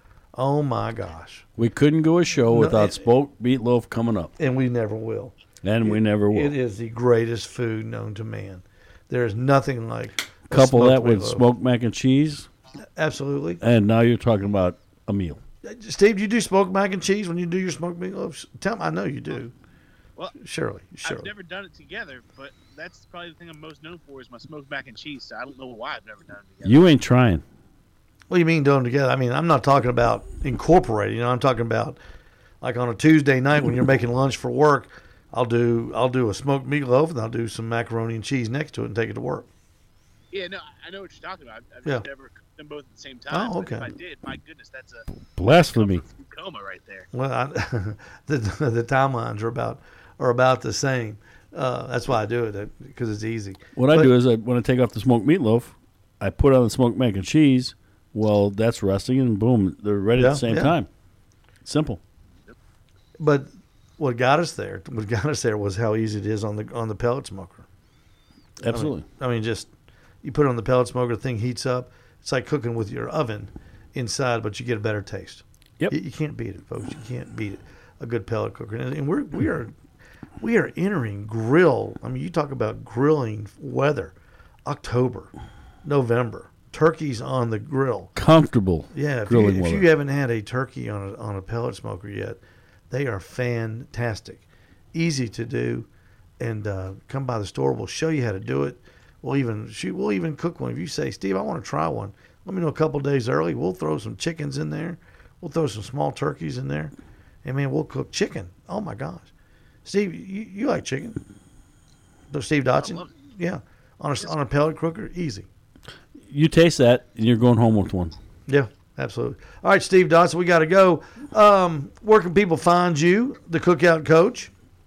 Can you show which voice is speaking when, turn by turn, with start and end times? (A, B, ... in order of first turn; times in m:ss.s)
0:00.4-0:01.5 A
0:01.6-0:04.3 B
0:02.5-0:03.1 A
0:04.4-0:11.4 A
0:05.6-0:06.5 B
0:10.5-0:12.5 B
0:13.0-0:13.6 A
0:13.6-0:15.4 B
0:15.6-0:19.5 A
0:20.4-0:21.3 A
0:21.0-0:26.8 C
0:26.6-0:27.4 B
0:28.3-0:32.0 A
0:32.6-0:39.5 A
0:40.3-0:47.1 C
0:43.3-0:43.9 A
0:45.3-0:46.0 B
0:47.1-0:54.1 A
0:53.8-1:00.9 B
1:00.2-1:00.8 A
1:01.6-1:02.0 B
1:03.2-1:07.7 A
1:08.6-1:09.1 B
1:08.7-1:09.7 A
1:10.2-1:19.7 A
1:20.4-1:24.2 A
1:24.7-1:25.3 A
1:25.8-1:28.1 A
1:28.2-1:29.9 B
1:28.9-1:32.4 A
1:32.9-1:35.9 A
1:36.4-1:46.9 A
1:47.4-1:49.3 A
1:49.8-1:51.2 A
1:52.3-1:55.5 A
1:52.8-1:53.1 C
1:56.2-1:58.2 B
1:58.5-2:04.5 A